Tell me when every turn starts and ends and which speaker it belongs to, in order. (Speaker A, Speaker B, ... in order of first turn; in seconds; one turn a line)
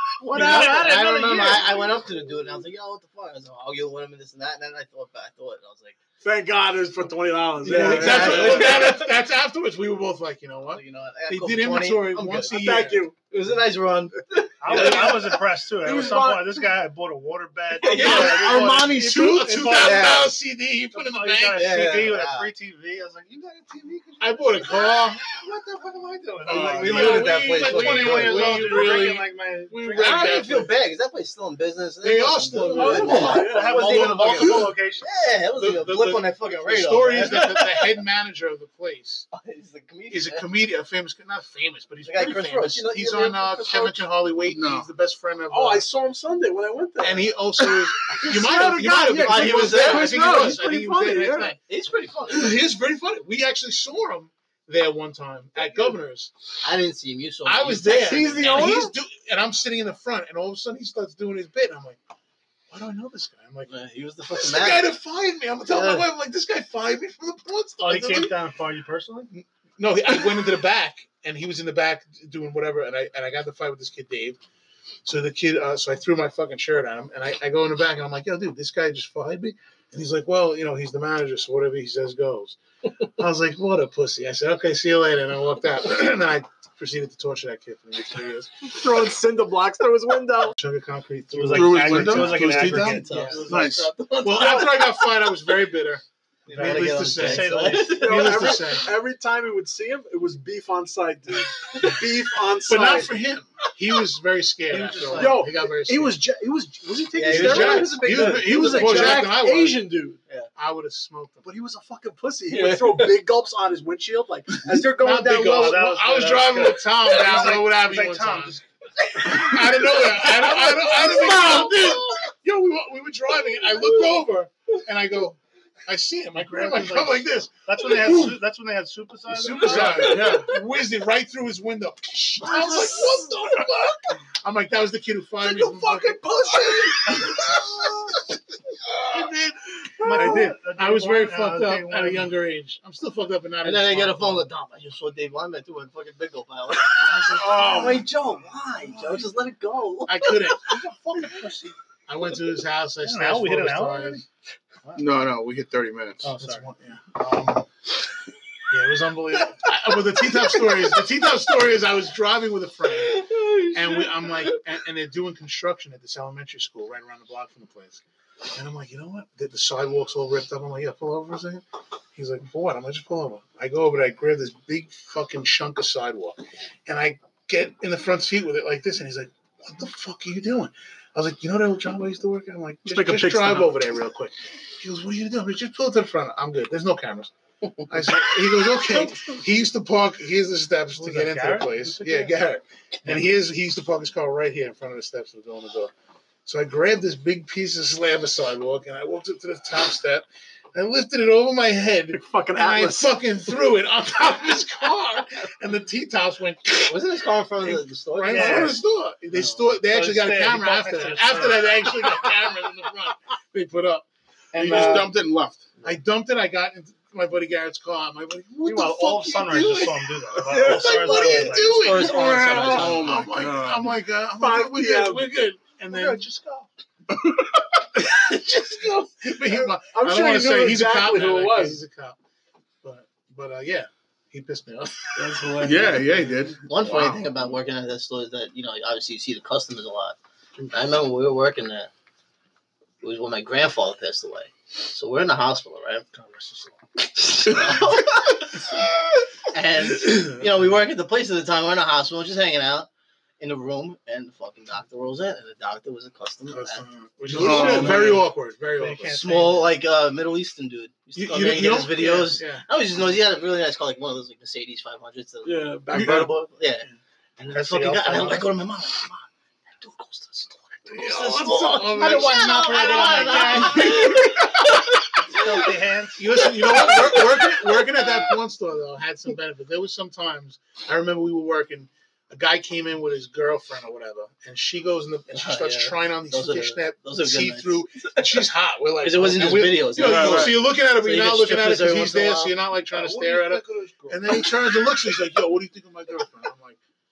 Speaker A: 0.2-6.0
Speaker B: 0.3-1.6
Speaker C: 0.4-0.7
Speaker D: 0.5-0.9
Speaker C: 6.2-8.9
Speaker A: 7.6-9.1
Speaker D: 7.7-13.0
Speaker B: 8.0-8.3
Speaker A: 10.7-15.5
Speaker C: 12.5-13.1
Speaker B: 14.6-20.3
Speaker C: 14.7-16.7
Speaker A: 17.7-18.8
Speaker C: 17.8-19.0
Speaker D: 17.9-21.8
Speaker A: 19.7-20.3
Speaker B: 20.9-30.5
Speaker A: 21.5-22.5
Speaker D: 24.2-25.2
Speaker E: 26.4-30.7
Speaker A: 26.5-28.7
Speaker D: 26.6-29.2
Speaker A: 30.0-37.8
Speaker D: 30.0-30.7
Speaker D: 32.0-34.6
Speaker C: 32.8-34.3
Speaker B: 32.8-35.1
Speaker D: 35.5-39.3
Speaker A: 39.3-40.5
Speaker D: 40.1-45.8
Speaker A: 42.0-44.0
Speaker E: 44.5-44.9
Speaker C: 45.5-51.5
Speaker D: 47.0-51.6
Speaker A: 48.8-52.6
Speaker D: 52.3-56.3
Speaker A: 56.6-58.8
Speaker D: 57.4-62.0
Speaker C: 57.8-58.9
Speaker D: 62.7-63.7
Speaker A: 63.6-64.9
Speaker D: 64.3-68.3
Speaker A: 65.7-66.0
Speaker B: 67.8-69.3
Speaker D: 69.3-74.4
Speaker D: 75.0-88.7
Speaker C: 88.6-90.5
Speaker D: 90.5-93.0
Speaker B: 91.3-93.4
Speaker E: 91.5-92.9
Speaker A: 92.6-95.2
Speaker C: 93.1-93.5
Speaker E: 93.5-93.9
Speaker D: 94.2-98.9
Speaker A: 96.5-98.5
Speaker B: 96.5-98.1
Speaker C: 97.6-103.2
Speaker D: 102.7-106.2
Speaker B: 104.7-105.4
Speaker C: 104.8-110.2
Speaker A: 107.1-109.3
Speaker D: 107.3-109.9
Speaker D: 110.5-111.5
Speaker C: 111.4-115.8
Speaker A: 112.5-113.1
Speaker D: 114.7-118.6
Speaker B: 115.5-118.6
Speaker D: 119.2-128.4
Speaker A: 119.2-122.0
Speaker C: 120.5-121.9
Speaker B: 126.5-130.5
Speaker D: 129.3-138.1
Speaker E: 129.6-130.4
Speaker C: 129.9-130.3
Speaker A: 132.4-133.3
Speaker C: 135.4-137.3
Speaker D: 139.0-144.5
Speaker B: 140.0-142.3
Speaker A: 143.6-151.3
Speaker D: 146.9-148.1
Speaker E: 147.5-148.0
Speaker D: 148.9-149.2
Speaker D: 150.0-151.3
Speaker B: 150.8-151.7
Speaker D: 152.1-154.2
Speaker B: 153.0-154.2
Speaker E: 154.9-156.3
Speaker B: 156.2-156.7
Speaker D: 156.4-157.7
Speaker D: 158.7-168.0
Speaker A: 163.1-164.5
Speaker D: 168.5-171.6
Speaker D: 172.1-187.3
Speaker C: 182.8-183.8
Speaker D: 187.9-195.9
Speaker B: 191.0-192.2
Speaker D: 196.4-207.0
Speaker C: 202.1-203.2
Speaker A: 206.9-208.8
Speaker D: 207.6-215.1
Speaker B: 208.2-208.8
Speaker B: 209.8-212.0
Speaker E: 214.5-215.7
Speaker A: 214.6-215.0
Speaker D: 215.8-226.7
Speaker B: 218.6-222.0
Speaker C: 220.5-220.9
Speaker A: 220.5-223.1
Speaker C: 222.1-222.9
Speaker E: 222.6-223.9
Speaker C: 224.4-225.4
Speaker D: 227.9-232.2
Speaker C: 229.8-231.8
Speaker D: 232.8-235.4
Speaker C: 235.1-236.1
Speaker E: 235.6-237.2
Speaker A: 236.7-240.2
Speaker D: 236.9-237.1
Speaker A: 240.7-241.9
Speaker A: 243.0-246.1
Speaker D: 246.1-246.7
Speaker A: 247.0-248.8
Speaker A: 249.5-252.9
Speaker A: 253.4-258.1
Speaker D: 256.5-259.2
Speaker E: 257.3-258.2
Speaker B: 257.3-258.1
Speaker B: 258.8-259.7
Speaker A: 259.1-266.9
Speaker D: 261.1-262.6
Speaker C: 265.4-266.3
Speaker A: 267.4-275.7
Speaker B: 267.5-268.5
Speaker D: 270.9-274.7
Speaker B: 272.0-274.4
Speaker B: 275.2-276.7
Speaker D: 276.2-296.8
Speaker A: 276.4-278.2
Speaker A: 285.3-288.5
Speaker A: 289.0-292.5
Speaker E: 290.0-290.5
Speaker B: 293.6-294.1